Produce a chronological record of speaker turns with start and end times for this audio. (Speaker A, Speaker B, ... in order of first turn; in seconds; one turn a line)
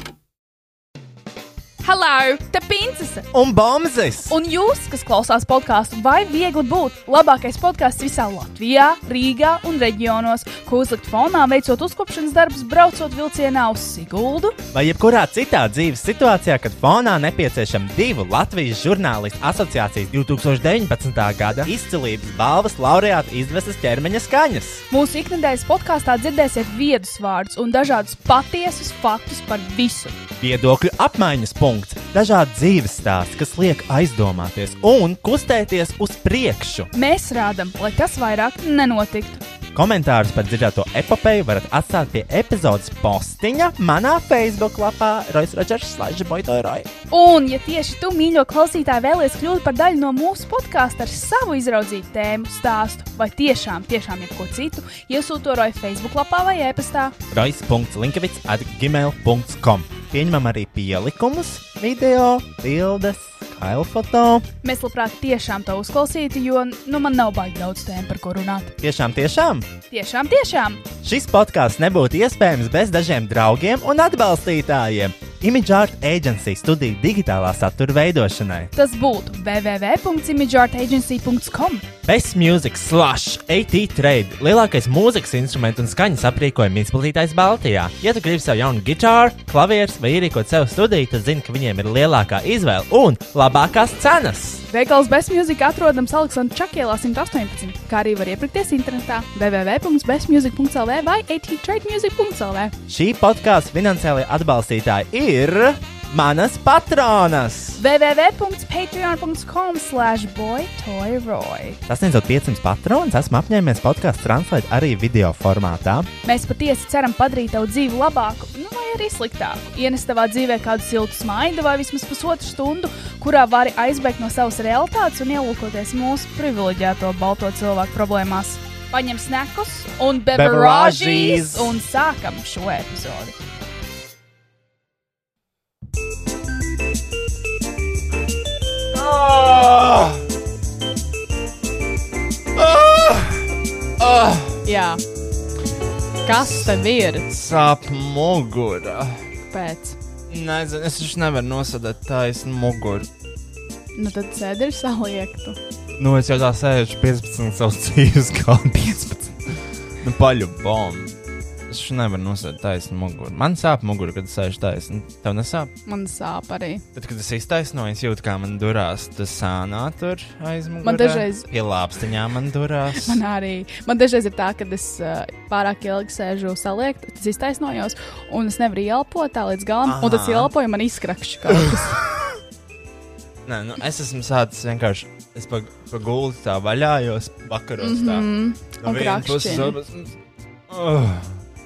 Speaker A: 1.8-3.3
Speaker B: 3.3-4.3
Speaker A: 4.3-14.6
Speaker B: 14.7-24.8
Speaker A: 24.9-30.2
Speaker B: 30.4-36.9
Speaker A: 36.9-39.4
Speaker B: 39.7-46.9
Speaker A: 47.1-57.1
Speaker B: 57.3-64.5
Speaker A: 64.6-68.7
Speaker B: 68.8-69.7
Speaker A: 69.9-70.8
Speaker B: 71.0-78.7
Speaker A: 78.7-81.9
Speaker B: 82.0-94.6
Speaker A: 94.7-102.7
Speaker B: 102.9-107.8
Speaker A: 107.8-111.8
Speaker B: 111.9-116.1
Speaker A: 116.2-133.3
Speaker B: 130.3-131.8
Speaker B: 138.9-140.2
Speaker B: 142.5-144.6
Speaker A: 144.6-145.0
Speaker A: 146.2-147.4
Speaker B: 146.3-149.3
Speaker A: 149.5-150.0
Speaker B: 150.3-153.1
Speaker A: 153.9-155.6
Speaker B: 155.9-165.7
Speaker A: 165.8-166.8
Speaker B: 166.9-173.2
Speaker A: 170.8-171.5
Speaker A: 172.9-182.0
Speaker B: 179.8-180.5
Speaker B: 181.5-182.3
Speaker B: 183.4-188.3
Speaker A: 187.8-189.8
Speaker B: 188.8-190.2
Speaker B: 190.7-191.4